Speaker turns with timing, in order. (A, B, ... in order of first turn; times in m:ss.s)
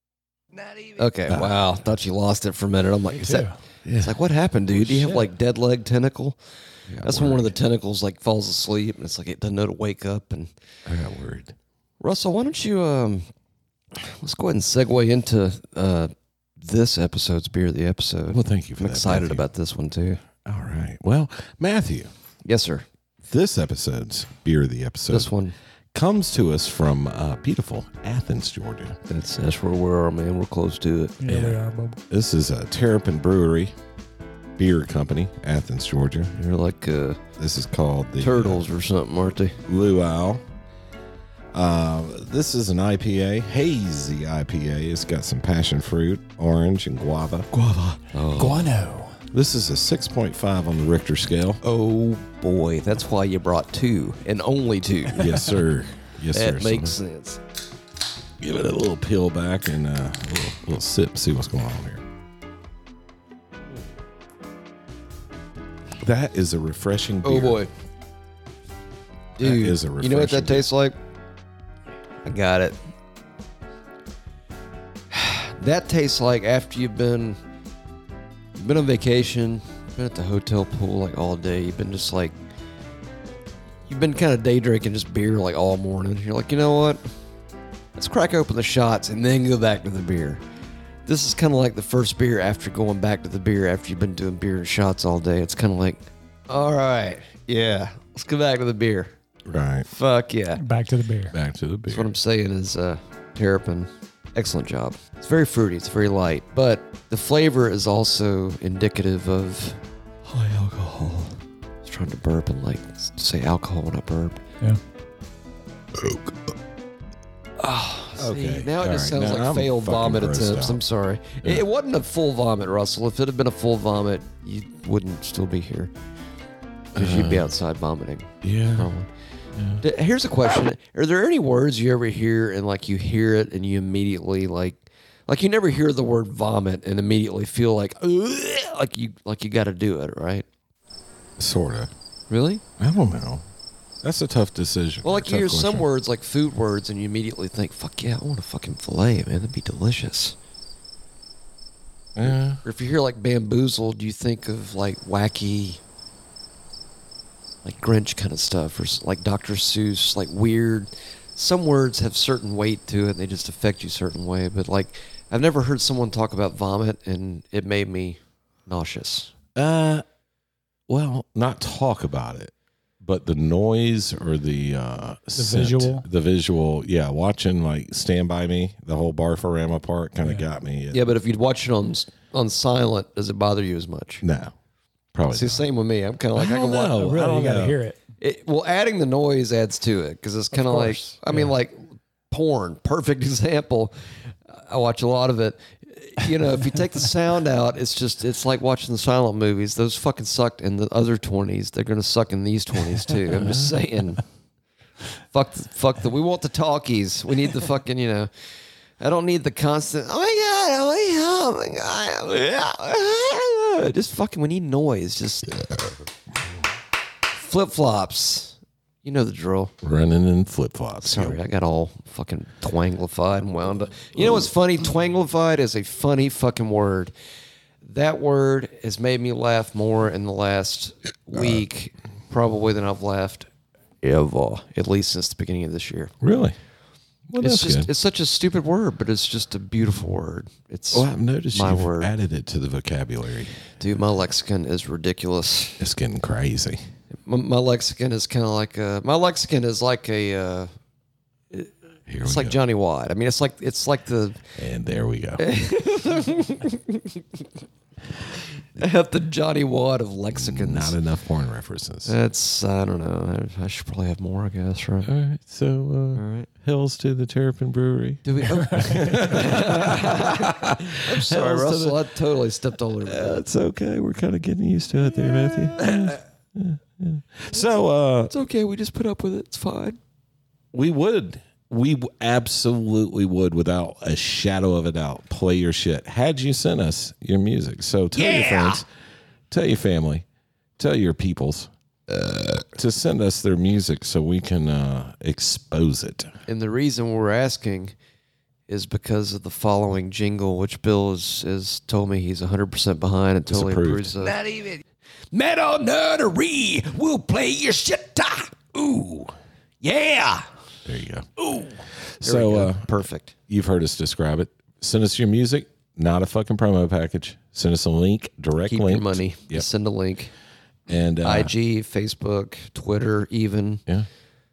0:01.0-0:06.4 A
0:03.1-0:03.5 B
0:03.8-0:04.1 C
0:05.0-0:05.3 B
0:06.9-0:07.5 C
0:07.0-0:10.5 A
0:10.8-0:11.5 C
0:12.0-0:13.3 A
0:13.9-0:20.2 A
0:18.3-0:19.4 C
0:20.4-0:22.1 C
0:22.4-0:22.8 A
0:23.2-0:25.3 C
0:25.1-0:25.5 A
0:25.9-0:29.0 C
0:29.1-0:31.2 A
0:31.2-0:32.0 B
0:31.2-0:33.7 C
0:34.6-0:36.3 C
0:36.3-0:37.2 A
0:37.4-0:38.6 C
0:38.2-0:39.6 A
0:39.6-0:40.4 C
0:41.5-0:48.0 C
0:48.1-0:48.7 A
0:48.4-0:49.2 B
0:49.3-0:51.6 C
0:51.6-0:55.5 A
0:55.1-0:57.0 C
0:56.3-0:57.4 A
0:58.4-1:02.0 C
1:06.0-1:07.6 C
1:07.2-1:07.7 A
1:09.4-1:11.0 A
1:09.4-1:10.7 C
1:12.2-1:12.8 A
1:15.1-1:17.4 A
1:18.6-1:22.4 A
1:23.9-1:27.0 A
1:28.0-1:30.4 A
1:31.0-1:39.1 A
1:39.4-1:39.9 C
1:39.9-1:40.6 A
1:40.5-1:41.3 B
1:41.3-1:42.1 C
1:41.9-1:54.4 A
1:57.6-2:05.9 A
1:58.2-2:00.8 C
2:06.9-2:07.5 C
2:06.9-2:09.1 A
2:08.4-2:08.9 C
2:09.5-2:09.8 C
2:09.8-2:20.4 A
2:21.4-2:21.9 C
2:22.3-2:22.6 A
2:22.8-2:23.4 C
2:24.0-2:25.9 C
2:25.0-2:30.4 A
2:32.2-2:32.6 C
2:32.2-2:35.8 A
2:37.6-2:49.3 A
2:49.6-2:50.0 C
2:50.9-3:01.1 C
2:55.4-2:56.0 B
3:00.9-3:04.2 A
3:04.2-3:04.5 C
3:05.1-3:05.6 C
3:05.3-3:07.0 A
3:06.3-3:07.8 C
3:07.0-3:08.0 B
3:08.2-3:14.0 A
3:10.5-3:11.5 B
3:14.5-3:24.2 A
3:23.3-3:23.7 C
3:25.3-3:28.3 A
3:29.0-3:35.7 A
3:37.3-3:39.7 A
3:39.8-3:41.4 C
3:41.0-3:47.1 A
3:47.8-3:53.5 A
3:54.0-3:56.1 A
3:56.2-3:56.6 C
3:57.3-3:57.9 C
3:57.4-4:02.1 A
4:00.9-4:03.6 C
4:03.8-4:05.9 A
4:05.8-4:06.8 C
4:07.2-4:10.7 A
4:11.5-4:14.4 A
4:12.1-4:12.6 C
4:14.6-4:15.4 C
4:15.4-4:17.4 A
4:18.8-4:21.0 A
4:20.3-4:22.1 C
4:22.0-4:25.1 A
4:25.0-4:32.1 C
4:26.1-4:26.5 A
4:28.2-4:33.4 A
4:28.6-4:29.4 B
4:33.0-4:38.3 C
4:35.5-4:36.2 A
4:38.3-4:40.0 A
4:40.7-4:48.8 C
4:48.1-4:48.8 A
4:49.5-4:50.2 C
4:50.8-4:56.3 C
4:56.5-4:57.9 A
4:58.7-5:04.4 A
5:03.5-5:04.1 C
5:04.4-5:04.8 D
5:05.3-5:07.5 D
5:05.5-5:09.3 A
5:09.8-5:10.4 A
5:10.8-5:11.3 C
5:12.2-5:12.9 C
5:12.2-5:13.3 A
5:13.5-5:19.7 C
5:18.7-5:20.3 A
5:20.9-5:21.5 C
5:21.2-5:23.8 A